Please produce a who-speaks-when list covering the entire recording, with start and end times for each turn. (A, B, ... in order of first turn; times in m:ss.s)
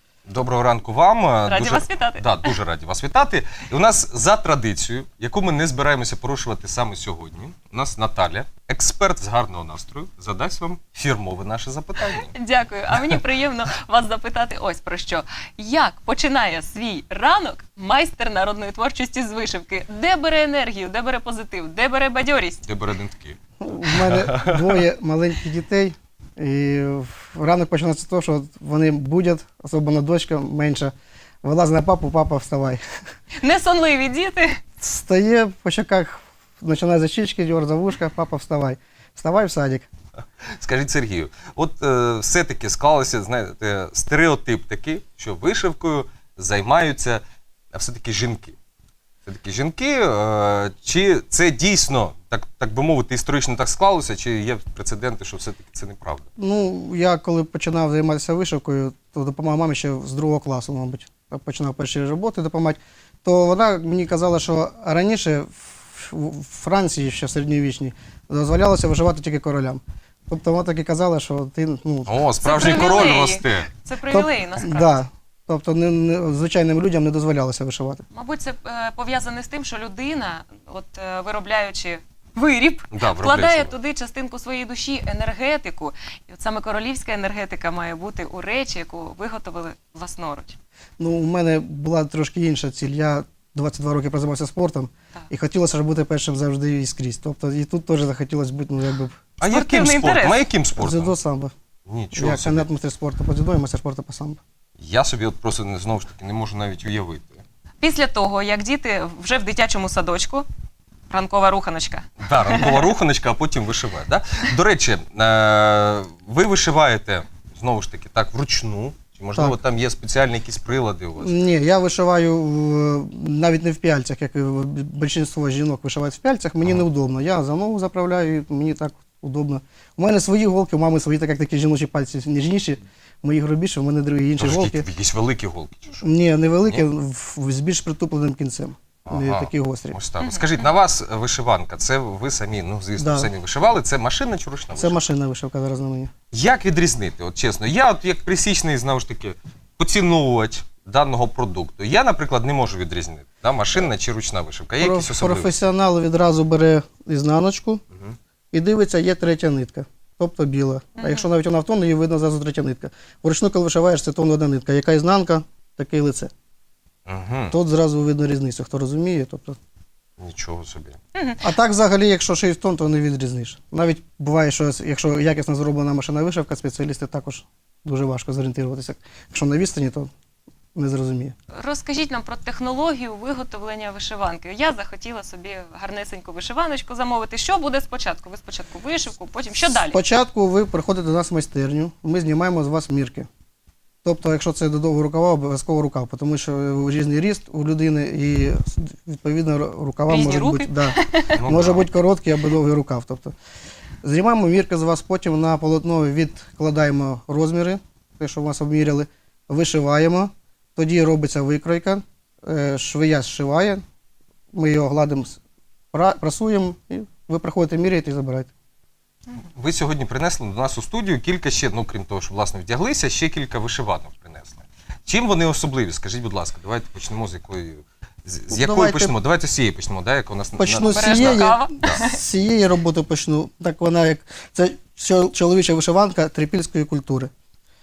0:00.3-0:12.3 A
0:01.5-0:02.5 B
0:12.1-0:22.6 B
0:22.6-0:24.8 A
0:23.6-0:32.8 C
0:33.4-0:34.6 B
0:34.8-0:39.9 C
0:40.6-0:48.6 A
0:49.3-0:56.3 A
0:56.4-1:12.2 C
1:12.1-1:13.7 A
1:12.4-1:15.0 B
1:14.1-1:18.0 C
1:18.1-1:30.6 B
1:22.9-1:23.7 A
1:31.0-1:39.2 C
1:39.4-1:41.2 A
1:39.4-1:40.4 B
1:40.8-1:41.5 C
1:41.9-1:42.7 A
1:42.1-1:44.4 C
1:44.8-1:47.4 A
1:47.8-1:50.5 B
1:51.1-1:52.9 B
1:52.2-2:01.4 A
1:59.4-1:59.6 C
2:01.2-2:14.9 C
2:14.4-2:16.1 A
2:16.0-2:20.0 C
2:19.0-2:25.0 A
2:20.2-2:20.7 B
2:23.0-2:23.3 C
2:24.8-2:26.1 C
2:26.3-2:35.6 A
2:34.8-2:37.8 C
2:38.5-2:46.3 C
2:41.0-2:41.3 B
2:47.1-2:47.6 A
2:47.5-2:49.6 C
2:50.2-2:51.0 A
2:51.1-2:51.5 B
2:51.4-3:00.1 C
3:00.8-3:01.4 C
3:01.6-3:10.0 B
3:09.6-3:13.3 C
3:14.0-3:23.3 C
3:20.1-3:21.4 B
3:21.3-3:21.9 A
3:24.0-3:33.8 C
3:34.5-3:35.4 C
3:35.9-3:38.5 C
3:39.4-3:52.0 A
3:48.5-3:49.2 C
3:50.6-3:57.3 C
3:50.8-3:52.2 B